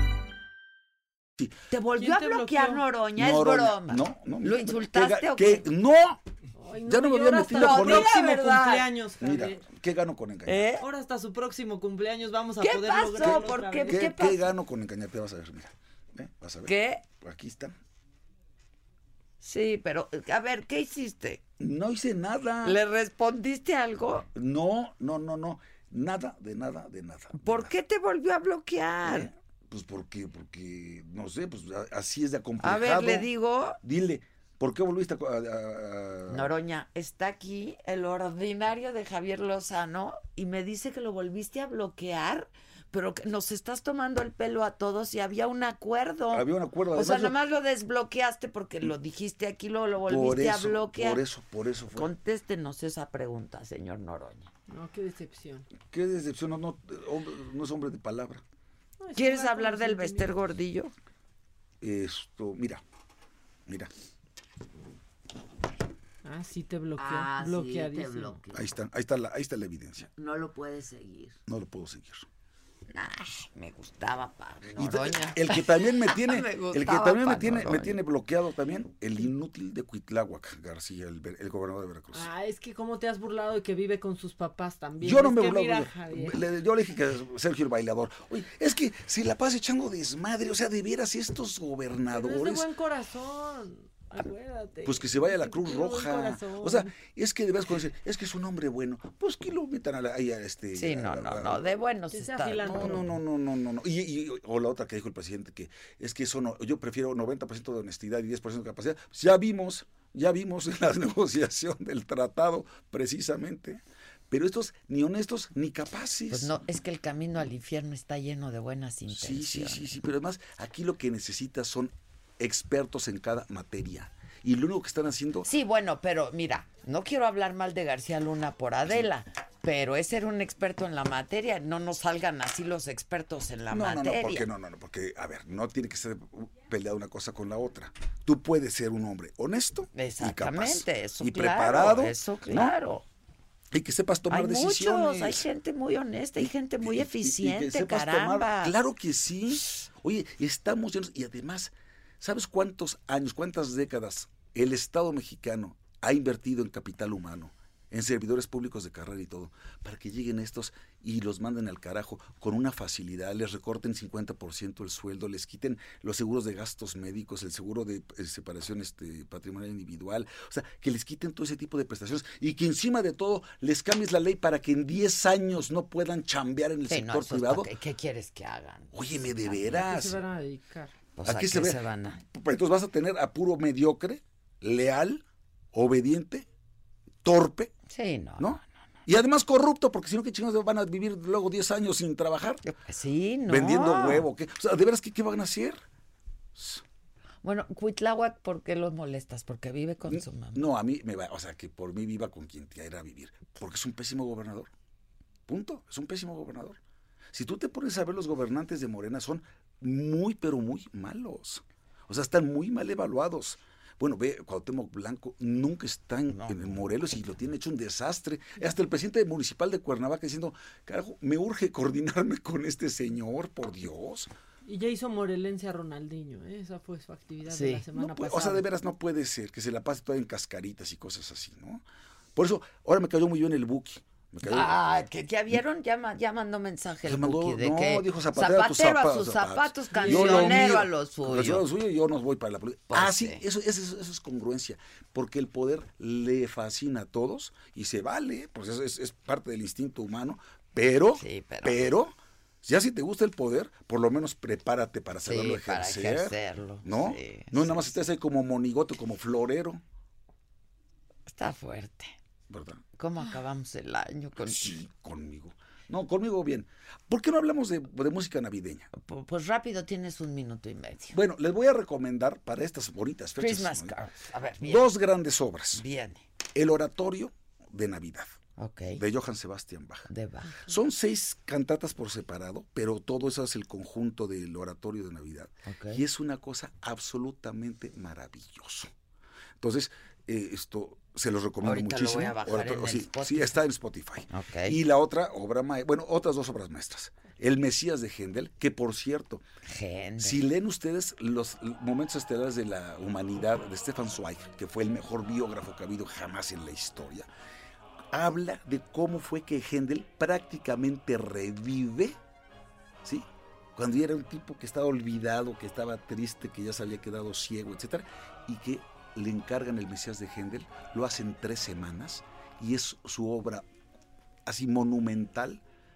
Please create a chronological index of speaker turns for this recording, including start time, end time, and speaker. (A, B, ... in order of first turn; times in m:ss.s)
0:01.7-0:05.7 A
0:01.9-0:02.8 B
0:03.1-0:06.2 C
0:06.6-0:09.6 B
0:06.8-0:08.2 C
0:07.5-0:08.9 A
0:09.2-0:10.7 C
0:10.4-0:10.9 A
0:10.8-0:14.1 B
0:12.6-0:14.5 A
0:13.2-0:17.7 C
0:16.6-0:17.0 A
0:19.4-0:21.4 A
0:21.6-0:22.8 C
0:22.6-0:24.3 A
0:24.3-0:27.7 C
0:27.4-0:29.3 A
0:29.0-0:33.3 C
0:32.6-0:33.8 A
0:33.8-0:36.5 C
0:36.3-0:51.2 A
0:46.3-0:47.4 C
0:50.0-0:52.1 C
0:51.9-0:54.5 A
0:54.7-0:55.7 B
0:55.8-0:58.4 C
0:59.0-1:00.4 B
0:59.1-1:00.9 A
1:01.8-1:02.8 C
1:06.2-1:08.4 B
1:07.0-1:08.7 A
1:08.5-1:10.1 C
1:10.1-1:11.4 A
1:11.5-1:12.2 C
1:12.9-1:18.0 A
1:14.8-1:22.3 C
1:22.1-1:26.5 B
1:25.0-1:32.7 C
1:32.1-1:36.9 B
1:34.8-1:41.6 C
1:40.7-1:43.0 A
1:42.1-1:43.1 B
1:42.6-1:56.6 C
1:56.3-2:00.0 A
1:59.1-2:05.5 C
2:05.4-2:14.5 A
2:13.7-2:22.7 C
2:19.9-2:23.0 A
2:23.7-2:25.5 C
2:24.3-2:28.8 A
2:26.4-2:57.7 C
2:56.9-2:59.8 A
2:58.9-3:00.2 C
2:59.8-3:00.9 B
3:01.1-3:02.2 A
3:01.2-3:06.5 C
3:07.2-3:07.7 C
3:07.9-3:08.7 A
3:08.4-3:12.6 C
3:12.6-3:14.2 A
3:13.5-3:15.8 C
3:16.5-3:16.8 C
3:17.4-3:20.7 A
3:20.0-3:24.7 C
3:25.5-3:26.8 C
3:27.3-3:44.3 C
3:36.3-3:36.8 A
3:44.6-3:48.6 B
3:47.4-3:47.8 A
3:47.9-3:51.8 C
3:52.3-3:54.8 C
3:54.4-4:01.7 A
3:57.0-4:19.8 C
3:59.9-4:00.8 B
4:02.9-4:03.4 A
4:11.1-4:11.9 A
4:15.2-4:18.0 A
4:21.3-4:22.2 A
4:22.5-4:22.8 C
4:23.0-4:24.8 A
4:24.4-4:28.9 C
4:28.9-4:31.2 A
4:31.1-4:33.9 C
4:33.4-4:34.9 A
4:34.6-4:35.8 C
4:35.7-4:36.2 A
4:36.5-4:38.3 C
4:38.6-4:39.0 A
4:39.0-4:40.1 C
4:40.1-4:40.8 A
4:40.6-4:48.9 C
4:45.6-4:46.0 A
4:49.6-4:59.4 C
4:51.6-4:53.6 A
4:54.3-4:54.8 A
4:59.6-5:00.4 A
5:00.2-5:07.3 C
5:08.1-5:12.2 C
5:13.0-5:23.6 C
5:24.4-5:25.6 C